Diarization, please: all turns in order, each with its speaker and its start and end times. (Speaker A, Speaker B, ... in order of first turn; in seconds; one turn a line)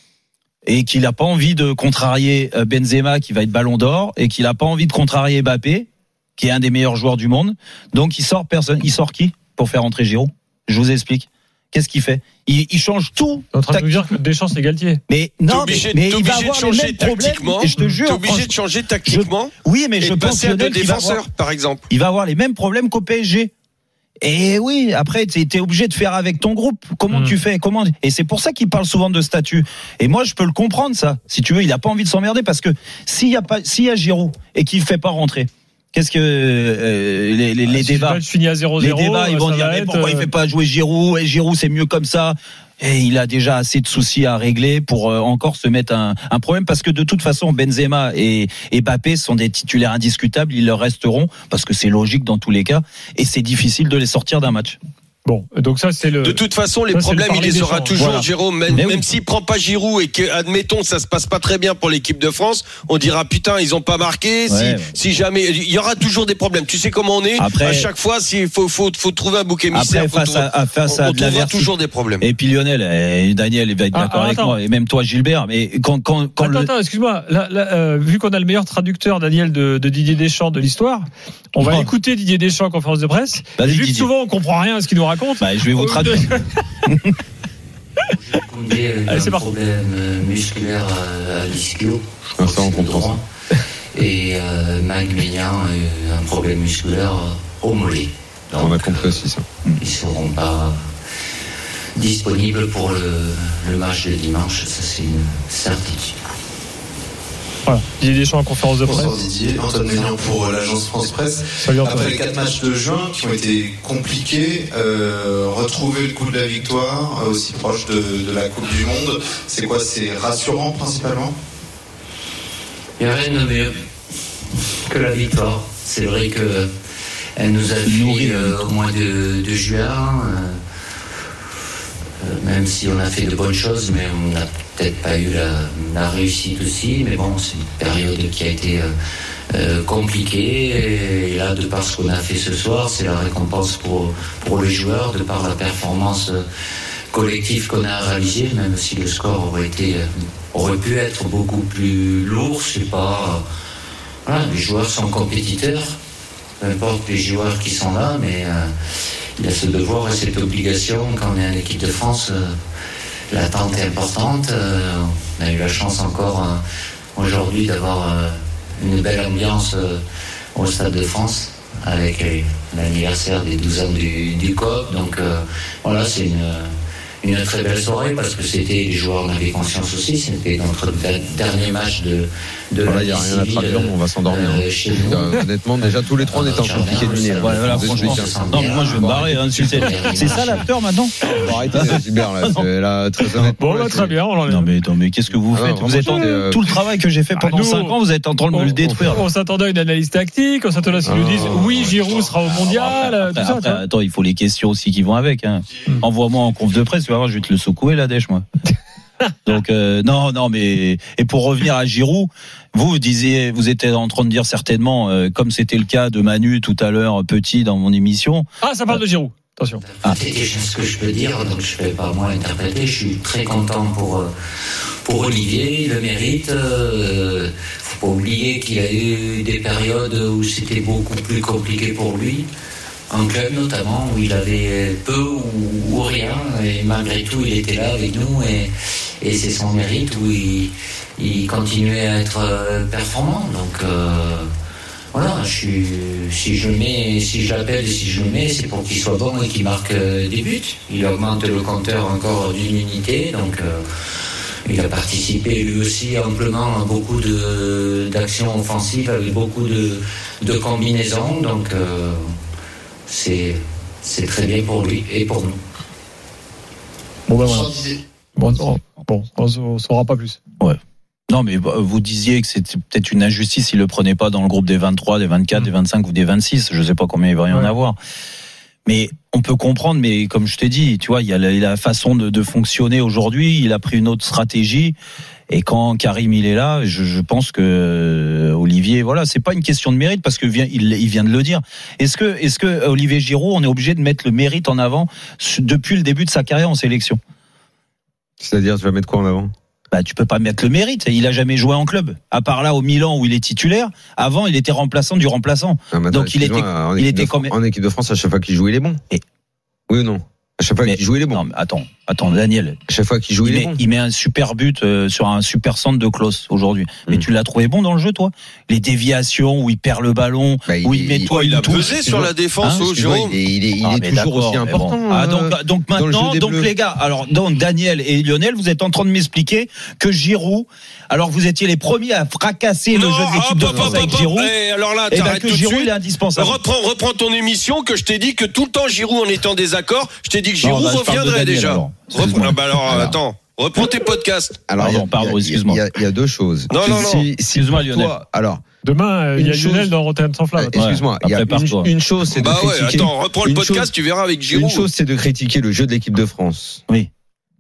Speaker A: 0.7-14.1
Speaker B: 13.5-15.0
Speaker A: 15.1-18.5
Speaker C: 15.5-21.9
Speaker B: 17.8-18.0
Speaker A: 19.1-21.2
Speaker A: 21.9-23.5
Speaker A: 24.2-38.2
Speaker B: 27.1-27.4
Speaker B: 37.7-40.3
Speaker A: 38.8-54.8
Speaker B: 55.2-58.2
Speaker C: 56.2-72.2
Speaker A: 58.0-59.0
Speaker A: 64.5-64.9
Speaker A: 67.4-67.9
Speaker A: 69.7-76.7
Speaker B: 73.9-74.6
Speaker B: 76.4-86.4
Speaker A: 81.6-81.9
Speaker A: 83.6-84.1
Speaker A: 85.4-87.2
Speaker D: 88.2-93.2
Speaker B: 89.1-89.5
Speaker E: 92.4-93.2
Speaker D: 94.0-99.2
Speaker E: 98.6-99.5
Speaker D: 99.8-100.8
Speaker D: 102.0-106.1
Speaker B: 107.7-109.2
Speaker F: 108.8-121.3
Speaker B: 111.6-112.2
Speaker D: 123.0-123.7
Speaker D: 124.9-126.7
Speaker D: 127.4-130.6
Speaker A: 127.8-128.6
Speaker D: 132.2-138.9
Speaker D: 139.5-146.4
Speaker D: 147.1-153.4
Speaker D: 154.3-156.0
Speaker D: 156.6-158.7
Speaker D: 159.4-162.5
Speaker D: 163.3-166.6
Speaker D: 167.2-170.0
Speaker D: 170.6-176.7
Speaker D: 177.2-185.3
Speaker E: 182.9-189.6
Speaker D: 186.2-190.7
Speaker A: 187.4-192.7
Speaker E: 191.3-194.1
Speaker A: 193.3-193.5
Speaker B: 193.6-194.7
Speaker A: 194.5-199.2
Speaker E: 195.5-196.7
Speaker B: 197.3-198.0
Speaker B: 198.5-203.8
Speaker E: 201.1-201.7
Speaker A: 202.4-208.4
Speaker A: 209.4-219.0
Speaker B: 218.6-219.8
Speaker D: 219.9-224.3
Speaker D: 225.1-232.5
Speaker D: 233.1-238.7
Speaker D: 239.2-244.5
Speaker D: 245.1-253.8
Speaker D: 254.7-262.2
Speaker D: 263.1-265.6
Speaker B: 267.3-270.4
Speaker A: 271.3-278.0
Speaker A: 278.9-285.0
Speaker A: 285.5-297.2
Speaker E: 298.4-299.5
Speaker A: 299.9-307.5
Speaker E: 305.9-309.0
Speaker E: 309.9-311.4
Speaker A: 310.8-312.8
Speaker E: 312.9-313.8
Speaker A: 313.4-322.0
Speaker E: 320.7-326.7
Speaker C: 321.3-323.4
Speaker A: 323.8-334.5
Speaker C: 332.9-344.6
Speaker E: 333.6-334.1
Speaker A: 335.1-336.6
Speaker A: 340.6-343.2
Speaker E: 344.7-348.6
Speaker A: 344.8-345.8
Speaker C: 346.7-347.3
Speaker A: 347.5-348.1
Speaker B: 348.8-350.8
Speaker E: 349.4-349.9
Speaker E: 350.6-353.9
Speaker A: 350.8-351.9
Speaker C: 352.4-354.9
Speaker E: 354.5-356.8